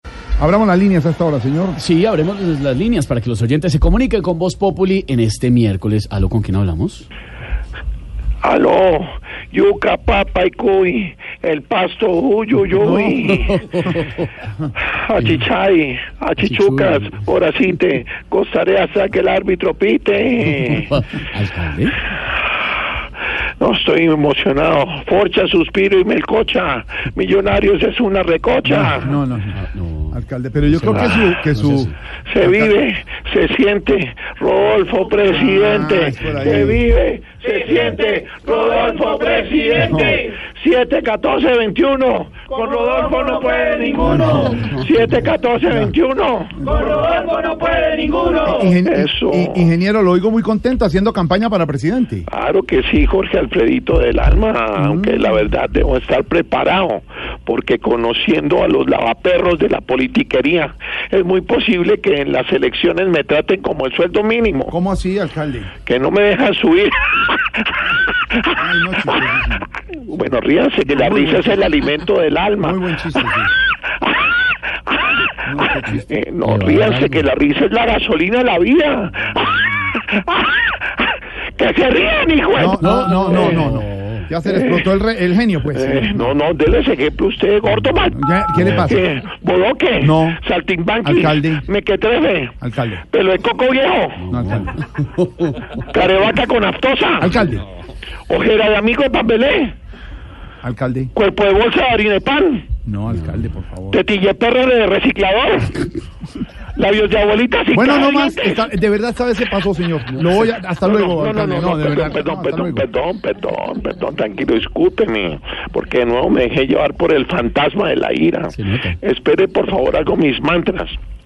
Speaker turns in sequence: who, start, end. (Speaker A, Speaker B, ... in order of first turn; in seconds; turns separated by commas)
Speaker A: 0.4-1.8, Speaker B: 1.8-7.0, Speaker C: 8.4-13.8, Speaker A: 12.8-13.3, Speaker B: 13.3-14.3, Speaker C: 15.0-21.0, Speaker B: 15.2-15.4, Speaker B: 16.4-17.2, Speaker B: 20.7-22.0, Speaker C: 23.6-29.1, Speaker A: 28.7-32.7, Speaker B: 29.0-31.9, Speaker C: 30.9-31.4, Speaker C: 32.2-49.7, Speaker A: 35.3-36.8, Speaker A: 39.8-40.2, Speaker A: 44.0-44.8, Speaker A: 45.6-45.9, Speaker A: 46.6-46.9, Speaker A: 48.4-52.3, Speaker C: 52.3-64.8, Speaker A: 54.7-55.4, Speaker A: 64.7-65.7, Speaker C: 65.8-67.4, Speaker A: 68.5-69.7, Speaker C: 70.0-72.8, Speaker A: 70.8-71.7, Speaker A: 72.6-73.5, Speaker C: 74.0-83.6, Speaker A: 75.4-76.1, Speaker B: 76.4-77.3, Speaker A: 79.5-79.8, Speaker A: 82.5-86.3, Speaker B: 82.8-84.3, Speaker C: 84.5-84.9, Speaker C: 85.7-88.2, Speaker A: 88.0-89.0, Speaker B: 88.5-89.0, Speaker C: 88.7-92.5, Speaker A: 90.0-90.4, Speaker A: 91.0-91.7, Speaker A: 92.6-93.0, Speaker C: 93.1-94.2, Speaker B: 94.2-95.6, Speaker A: 94.3-94.8, Speaker C: 95.8-97.4, Speaker A: 97.2-97.6, Speaker C: 98.3-99.7, Speaker A: 100.6-101.1, Speaker C: 101.1-102.7, Speaker A: 102.8-104.0, Speaker B: 103.1-103.5, Speaker C: 103.9-105.8, Speaker C: 106.7-108.7, Speaker A: 107.7-112.9, Speaker C: 110.7-121.0, Speaker B: 118.5-119.0